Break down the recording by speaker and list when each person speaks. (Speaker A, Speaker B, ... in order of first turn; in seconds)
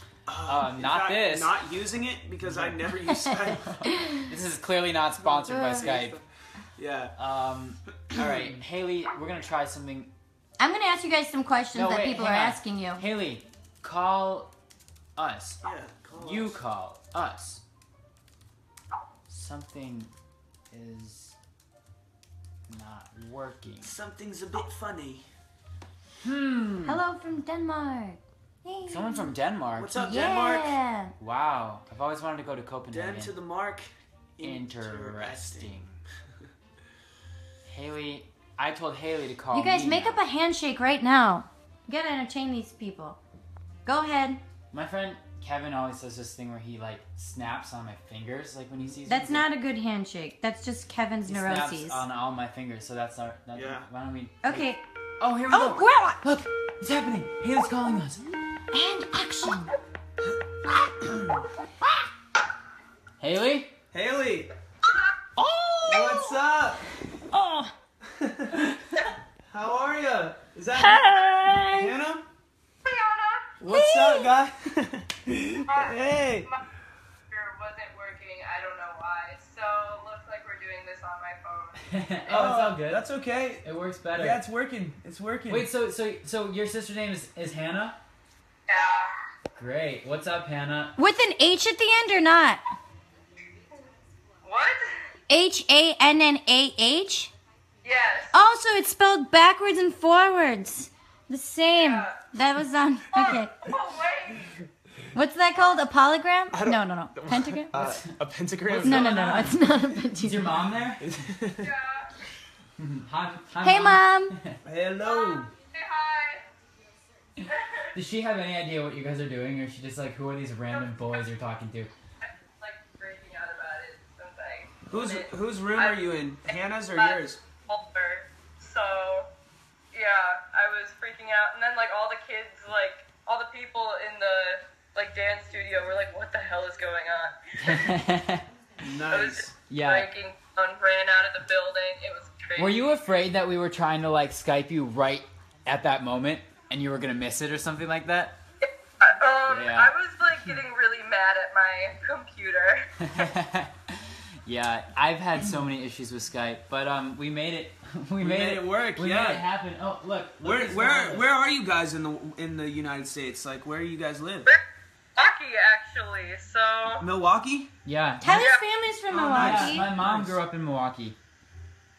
Speaker A: 0.3-3.8, 5.2-6.2, 6.8-7.2, 8.1-8.5, 15.6-16.6, 23.8-25.2, 29.8-30.8, 32.9-35.9, 53.5-53.9, 60.9-61.4, 63.9-64.5, 65.8-66.9, 68.1-68.7, 69.5-72.3, 73.6-76.5, 82.3-85.7, 106.5-109.5, 111.0-111.7, 114.6-115.5, 124.9-127.4, 138.8-139.6, 158.2-159.4, 160.4-164.5, 167.0-167.7, 169.1-170.4
Speaker B: 0.5-1.6, 2.4-6.2, 7.2-10.1, 11.7-14.5, 15.2-15.6, 16.2-17.6, 19.3-20.1, 20.7-21.4, 22.7-23.9, 26.2-27.0, 28.9-30.0, 31.2-33.3, 34.4-35.9, 37.7-40.2, 44.7-49.5, 51.3-54.7, 55.2-58.2, 63.2-63.7, 81.8-83.1, 83.6-84.4, 85.5-88.0, 89.5-91.0, 107.7-108.1, 108.7-109.6, 110.2-111.2, 112.8-114.6, 117.9-121.9, 137.6-138.5, 139.7-140.1, 142.6-148.4, 149.5-149.9, 153.0-161.3, 167.8-168.5, 169.3-171.2
Speaker C: 3.9-4.3, 5.5-6.0, 10.6-13.0, 26.8-29.3, 30.0-31.1, 39.5-43.2, 43.9-44.4, 49.1-52.0, 54.4-54.8, 55.5-56.2, 58.7-59.7, 65.4-66.3, 67.3-67.7, 70.8-71.9, 73.6-74.3, 91.0-92.6, 95.3-97.3, 98.3-103.5, 105.1-107.7, 108.8-110.5, 113.6-114.4, 168.2-169.9
Speaker D: 72.8-73.6, 75.7-76.6, 77.3-82.4, 88.7-89.1, 94.4-95.0, 97.8-98.3, 101.7-102.2, 103.1-104.5, 111.6-112.1, 115.0-116.4, 117.5-117.9, 120.7-121.2, 122.2-129.3, 129.9-137.4, 139.1-142.8, 148.6-152.9, 165.2-167.1, 168.4-168.6